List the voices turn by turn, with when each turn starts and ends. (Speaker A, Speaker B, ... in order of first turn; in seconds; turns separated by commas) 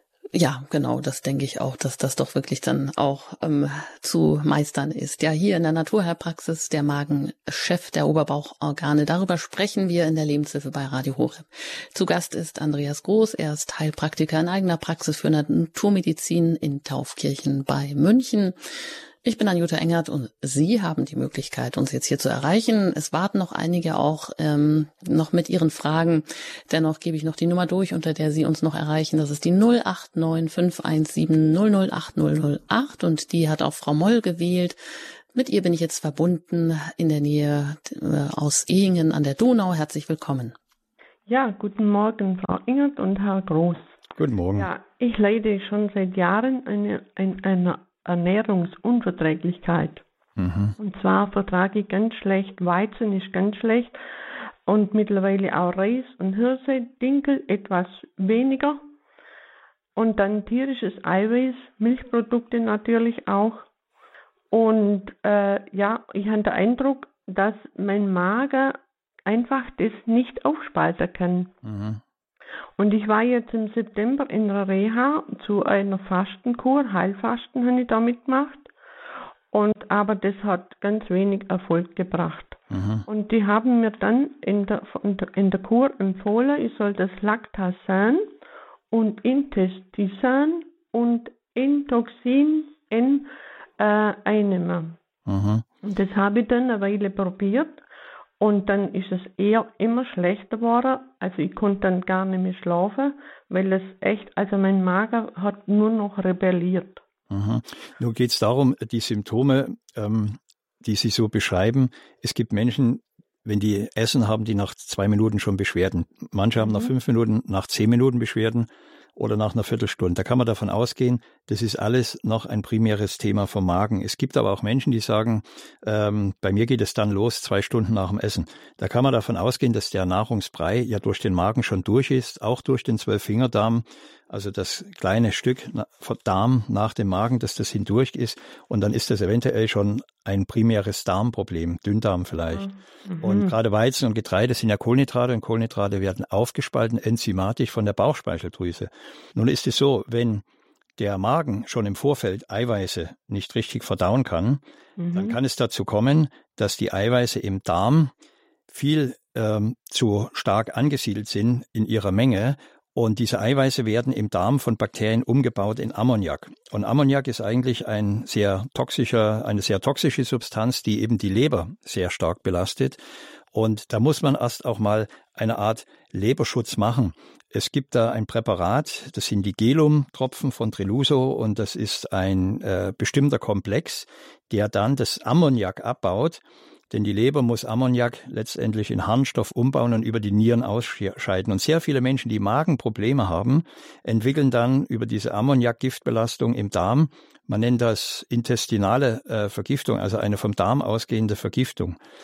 Speaker A: 0.3-18.6, Speaker A: 19.2-34.8, Speaker A: 35.3-40.5, Speaker B: 41.2-43.9, Speaker C: 44.1-44.7, Speaker B: 44.5-50.0, Speaker C: 50.4-50.8, Speaker B: 50.8-54.0, Speaker B: 54.6-58.8, Speaker B: 59.9-63.7, Speaker B: 64.5-71.5, Speaker C: 71.6-72.0, Speaker B: 72.8-78.7, Speaker B: 79.5-88.3, Speaker C: 82.7-83.0, Speaker B: 88.9-95.0, Speaker C: 95.2-95.6, Speaker B: 95.8-97.8, Speaker B: 98.4-107.0, Speaker C: 107.3-142.7, Speaker B: 116.6-116.9, Speaker B: 142.5-143.5, Speaker C: 143.2-150.4, Speaker C: 151.0-154.6, Speaker B: 155.0-155.4, Speaker C: 155.1-158.1, Speaker C: 158.7-173.0, Speaker C: 173.5-202.0